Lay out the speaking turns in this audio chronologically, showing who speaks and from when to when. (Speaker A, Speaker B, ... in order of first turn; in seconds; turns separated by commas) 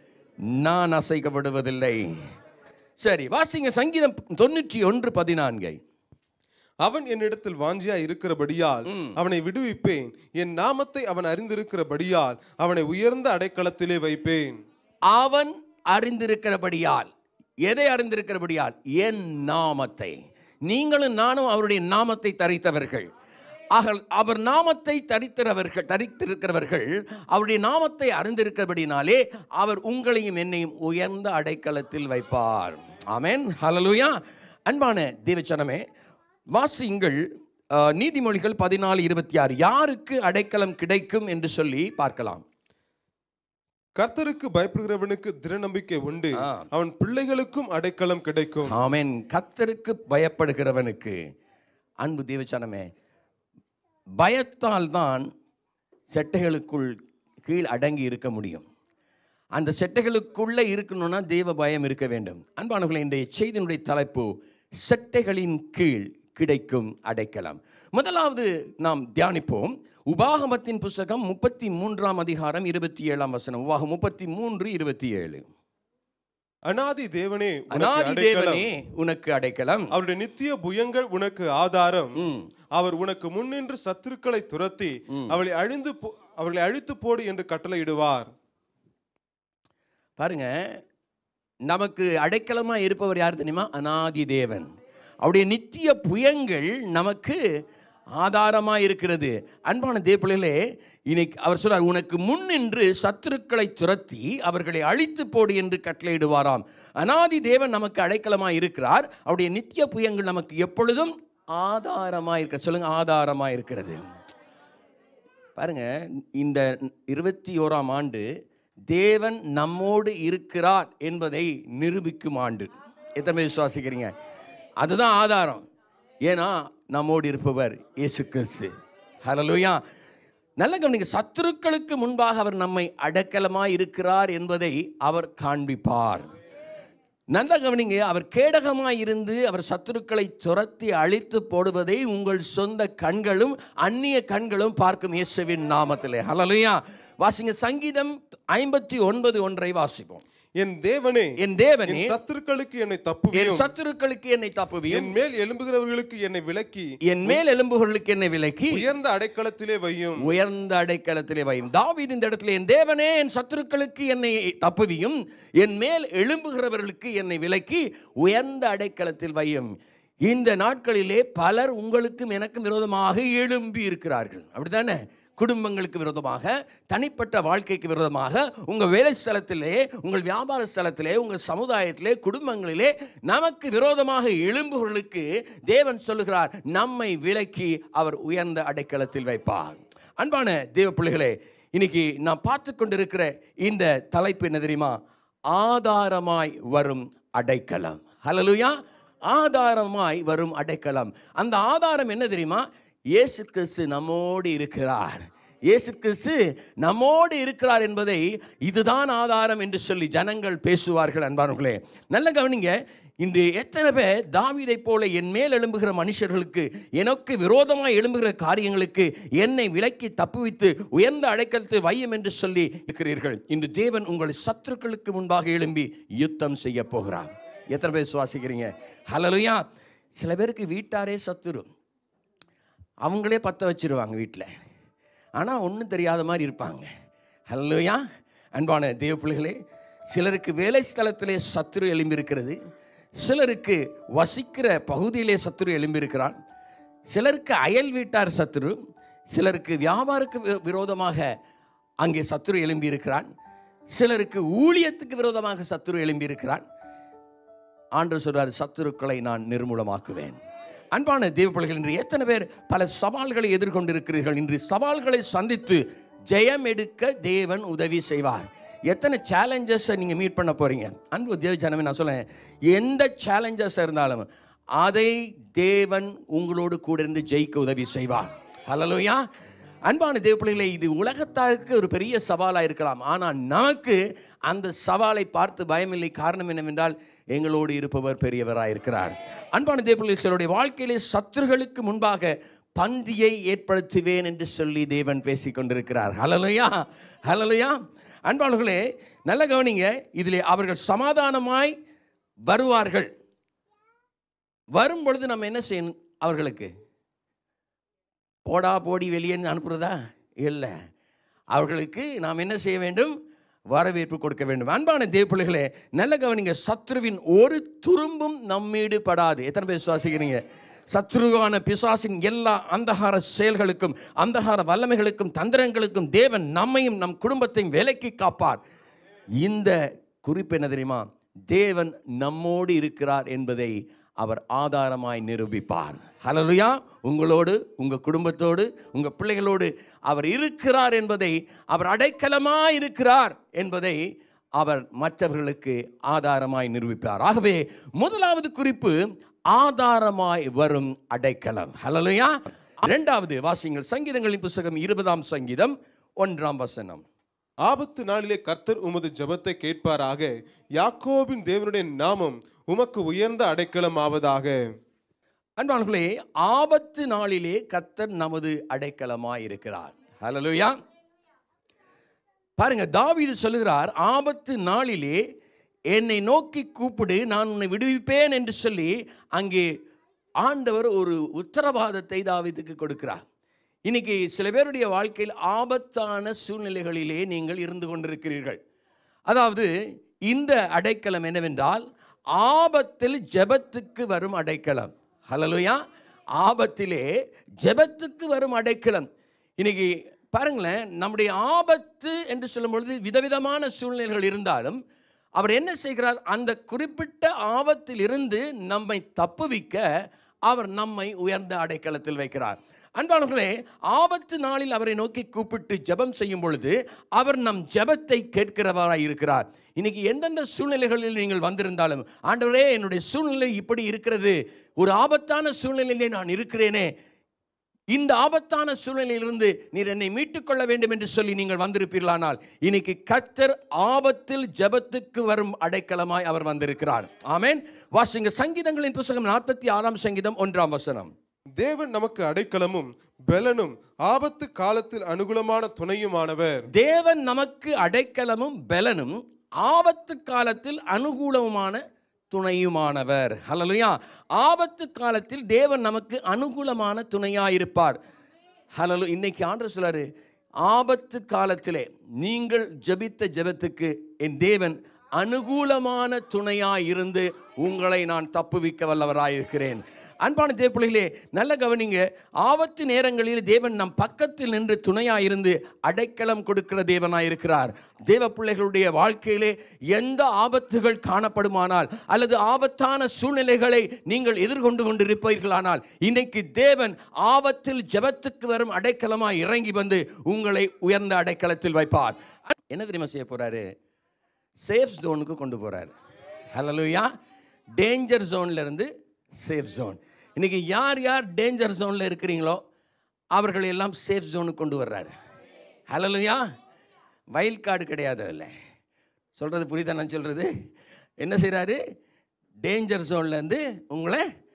Speaker A: 0.5-2.1, Speaker A: 3.0-5.8, Speaker B: 6.8-14.6, Speaker A: 8.8-9.2, Speaker A: 15.1-17.1, Speaker A: 17.6-23.1, Speaker A: 23.7-35.8, Speaker A: 36.5-37.2, Speaker A: 37.7-42.4, Speaker B: 44.0-48.8, Speaker A: 46.4-46.7, Speaker A: 48.7-51.2, Speaker A: 52.0-52.9, Speaker A: 54.2-55.3, Speaker A: 56.1-56.9, Speaker A: 57.5-58.6, Speaker A: 59.5-75.5, Speaker B: 76.7-78.7, Speaker A: 77.7-79.9, Speaker B: 79.9-82.1, Speaker A: 82.2-82.5, Speaker B: 82.8-88.3, Speaker A: 90.2-90.8, Speaker A: 91.7-94.7, Speaker A: 95.2-97.4, Speaker A: 98.2-114.0, Speaker A: 115.5-118.2, Speaker A: 118.9-124.1, Speaker A: 124.8-125.6, Speaker A: 126.2-128.7, Speaker A: 129.2-129.8, Speaker A: 130.6-136.3, Speaker A: 137.3-150.2, Speaker B: 150.6-151.3, Speaker A: 151.4-152.1, Speaker B: 151.8-153.7, Speaker A: 153.3-155.1, Speaker B: 154.9-157.4, Speaker A: 157.0-158.8, Speaker B: 158.7-160.3, Speaker A: 160.2-169.7, Speaker A: 170.2-195.0, Speaker A: 195.5-198.8, Speaker A: 199.3-229.6, Speaker A: 230.2-231.7, Speaker A: 233.0-234.5, Speaker A: 235.4-236.9, Speaker A: 237.5-238.0, Speaker A: 238.6-239.6, Speaker A: 240.1-242.6, Speaker A: 243.2-246.4, Speaker A: 247.1-248.8, Speaker A: 249.3-251.3, Speaker A: 252.0-253.3, Speaker A: 253.9-256.6, Speaker A: 257.9-260.4, Speaker A: 260.9-274.3, Speaker A: 274.8-279.2, Speaker A: 279.9-301.7, Speaker A: 302.5-303.1, Speaker A: 304.7-306.7, Speaker A: 308.4-310.7, Speaker A: 311.5-313.1, Speaker A: 313.7-328.6, Speaker A: 329.4-349.0, Speaker A: 349.5-357.0, Speaker B: 357.6-364.6, Speaker A: 365.6-370.8, Speaker A: 372.6-375.2, Speaker A: 375.9-379.7, Speaker A: 380.4-383.2, Speaker A: 383.9-388.6, Speaker A: 389.3-389.7, Speaker A: 390.3-395.8, Speaker A: 396.4-397.1, Speaker A: 397.6-399.1, Speaker A: 399.6-404.8, Speaker A: 405.4-409.9, Speaker A: 410.5-426.9, Speaker A: 427.9-441.1, Speaker B: 441.6-446.6, Speaker A: 446.7-458.0, Speaker A: 458.8-460.1, Speaker A: 460.6-493.6, Speaker A: 494.6-495.9, Speaker A: 496.5-497.1, Speaker A: 497.8-502.6, Speaker A: 503.3-505.1, Speaker A: 505.9-506.5, Speaker A: 507.3-508.5, Speaker A: 509.4-510.5, Speaker A: 511.2-511.8, Speaker A: 512.6-514.2